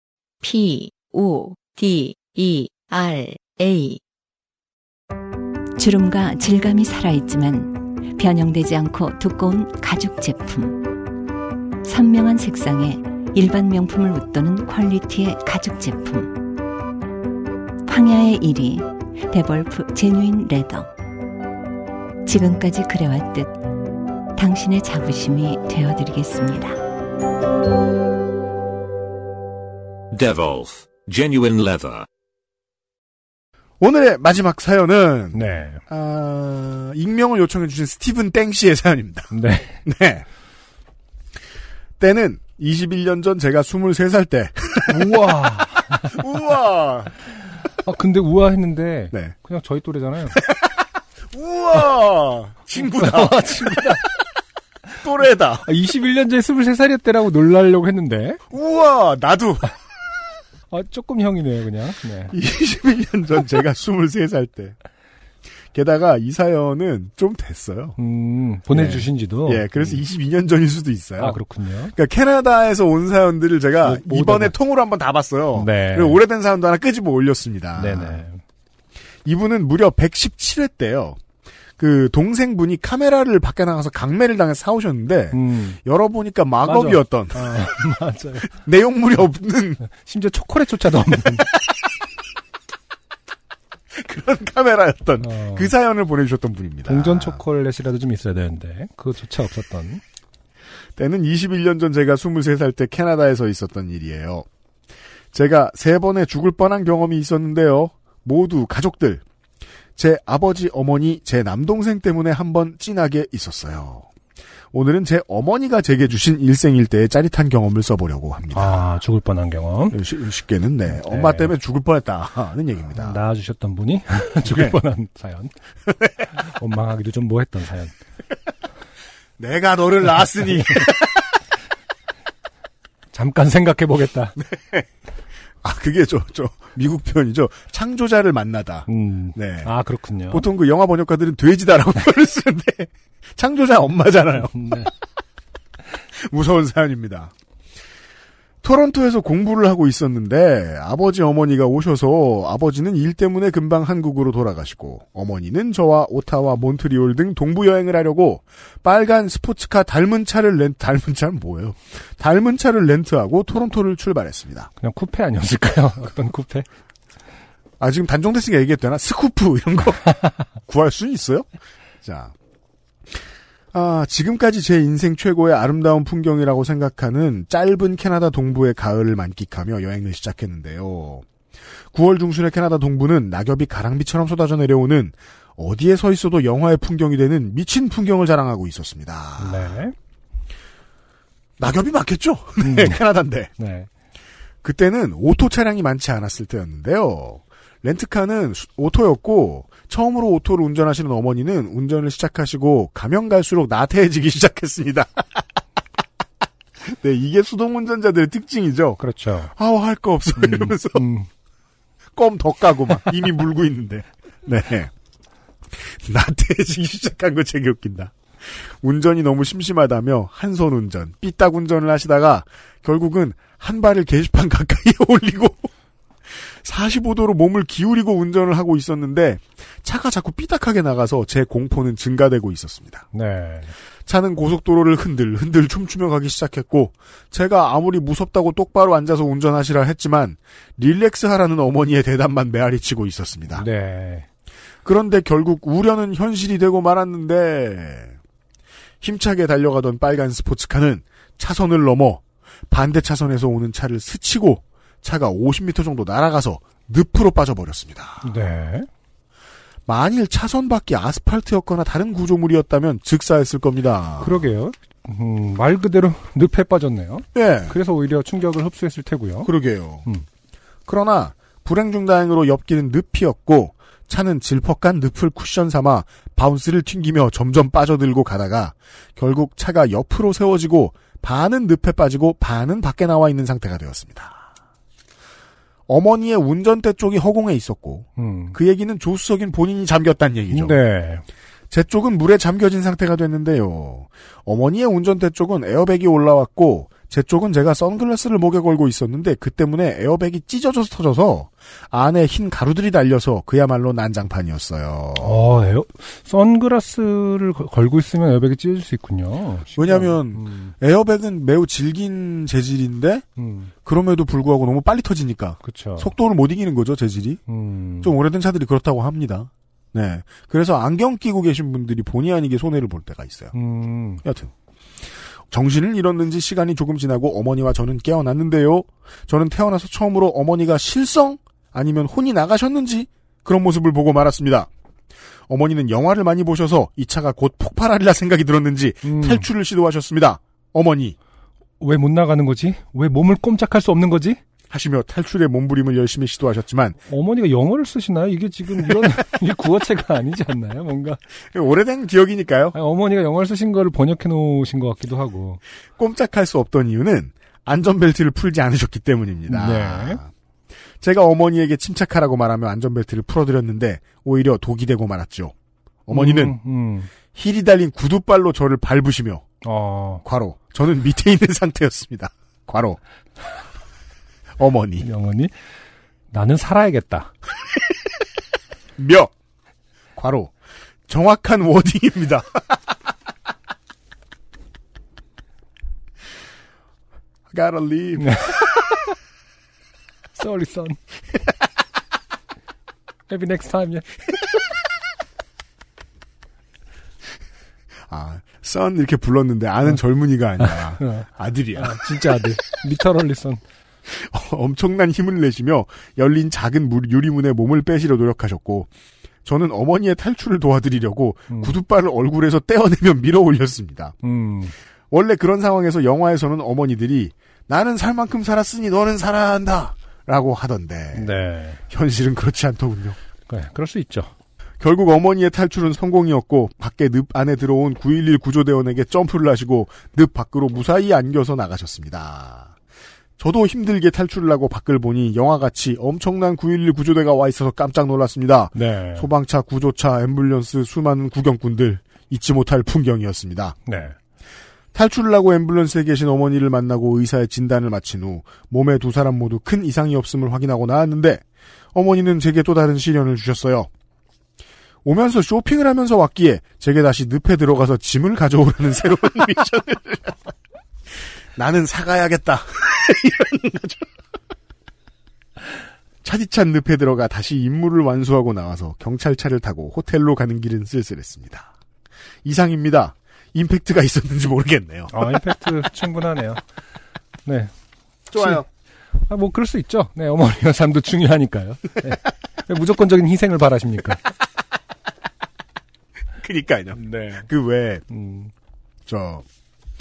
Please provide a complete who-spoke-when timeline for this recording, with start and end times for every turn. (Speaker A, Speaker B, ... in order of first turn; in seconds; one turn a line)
Speaker A: 0.4-4.0
Speaker B: 5.8-10.8
Speaker B: 11.8-16.3
Speaker B: 17.8-20.9
Speaker B: 22.2-23.6
Speaker B: 24.3-26.8
Speaker C: 30.1-32.1
Speaker D: 33.8-39.3
Speaker E: 35.3-35.8
Speaker E: 39.3-39.8
Speaker D: 39.8-40.2
Speaker D: 42.0-45.2
Speaker E: 44.9-46.2
Speaker D: 46.0-47.1
Speaker E: 47.7-50.4
Speaker D: 50.3-50.7
Speaker D: 51.3-54.1
Speaker E: 52.8-54.0
Speaker D: 55.0-55.7
Speaker E: 55.6-58.4
Speaker D: 58.5-59.7
Speaker E: 60.7-62.3
Speaker D: 62.3-64.8
Speaker D: 65.7-68.0
Speaker E: 68.0-70.0
Speaker D: 68.7-78.2
Speaker E: 71.2-71.9
Speaker E: 73.8-74.5
Speaker E: 75.5-76.2
Speaker E: 77.8-78.4
Speaker D: 79.2-81.2
Speaker D: 81.8-87.6
Speaker E: 85.3-85.8
Speaker E: 86.6-88.5
Speaker D: 88.5-89.8
Speaker E: 89.8-91.5
Speaker D: 93.9-97.4
Speaker E: 95.2-95.7
Speaker E: 96.8-100.0
Speaker D: 101.0-104.5
Speaker D: 105.3-109.2
Speaker D: 110.0-114.1
Speaker D: 114.7-118.8
Speaker E: 118.5-120.0
Speaker D: 119.9-123.2
Speaker E: 120.9-121.5
Speaker E: 123.0-125.5
Speaker D: 124.4-124.8
Speaker E: 126.2-127.9
Speaker D: 129.4-131.2
Speaker E: 133.1-134.3
Speaker D: 134.3-134.9
Speaker D: 135.6-139.7
Speaker E: 138.9-140.4
Speaker D: 140.3-144.9
Speaker E: 144.5-144.9
Speaker D: 146.1-147.3
Speaker D: 148.6-164.7
Speaker E: 164.8-166.7
Speaker D: 167.8-170.2
Speaker D: 170.7-171.4
Speaker D: 172.0-172.3
Speaker D: 173.7-181.2
Speaker D: 181.9-189.8
Speaker E: 189.4-189.9
Speaker D: 191.6-193.5
Speaker E: 192.6-193.0
Speaker E: 193.6-193.9
Speaker D: 194.6-205.2
Speaker D: 206.9-209.0
Speaker E: 209.0-209.5
Speaker D: 209.5-211.1
Speaker E: 210.4-211.3
Speaker D: 212.2-214.9
Speaker D: 215.7-225.7
Speaker D: 226.3-233.1
Speaker E: 233.1-233.7
Speaker D: 234.1-243.7
Speaker E: 243.5-244.2
Speaker D: 244.8-248.2
Speaker D: 249.0-258.3
Speaker E: 258.2-258.9
Speaker D: 259.9-264.4
Speaker E: 264.2-269.5
Speaker D: 267.3-267.7
Speaker D: 269.4-270.1
Speaker D: 270.9-284.4
Speaker D: 285.9-290.8
Speaker E: 288.2-288.6
Speaker E: 290.5-291.2
Speaker D: 291.7-305.4
Speaker E: 305.2-310.7
Speaker D: 309.8-313.2
Speaker E: 313.4-313.7
Speaker D: 313.8-317.4
Speaker E: 315.6-316.1
Speaker E: 317.5-318.1
Speaker D: 318.0-323.5
Speaker E: 323.5-324.2
Speaker D: 324.2-324.5
Speaker D: 325.5-334.7
Speaker D: 335.5-341.1
Speaker E: 339.0-339.5
Speaker E: 341.8-344.4
Speaker D: 344.7-347.0
Speaker E: 347.1-351.2
Speaker D: 351.5-352.8
Speaker E: 352.7-355.6
Speaker D: 356.0-360.3
Speaker E: 359.5-360.2
Speaker D: 361.0-365.5
Speaker D: 366.1-366.6
Speaker E: 366.1-367.1
Speaker D: 367.3-369.4
Speaker E: 369.6-370.2
Speaker D: 370.2-373.0
Speaker D: 374.6-375.1
Speaker E: 375.0-375.5
Speaker E: 376.3-377.3
Speaker D: 379.0-379.3
Speaker D: 380.1-380.5
Speaker D: 381.1-382.6
Speaker D: 387.5-388.5
Speaker E: 388.2-388.6
Speaker E: 390.4-391.0
Speaker E: 393.3-394.3
Speaker D: 398.1-402.0
Speaker E: 400.6-401.2
Speaker E: 401.8-403.6
Speaker D: 404.1-408.9
Speaker D: 409.4-414.1
Speaker E: 414.2-414.7
Speaker D: 415.1-421.3
Speaker E: 421.1-421.8
Speaker D: 421.9-423.2
Speaker E: 423.5-424.3
Speaker D: 424.8-432.7
Speaker D: 433.4-443.8
Speaker E: 438.7-439.3
Speaker E: 443.9-444.1
Speaker D: 444.9-453.9
Speaker D: 455.0-460.5
Speaker D: 461.6-464.1
Speaker D: 466.2-471.7
Speaker D: 472.4-475.4
Speaker E: 475.1-476.6
Speaker D: 478.3-478.6
Speaker E: 478.3-478.6
Speaker E: 479.2-484.2
Speaker D: 486.4-488.0
Speaker E: 487.0-487.4
Speaker E: 488.1-488.5
Speaker D: 489.1-489.4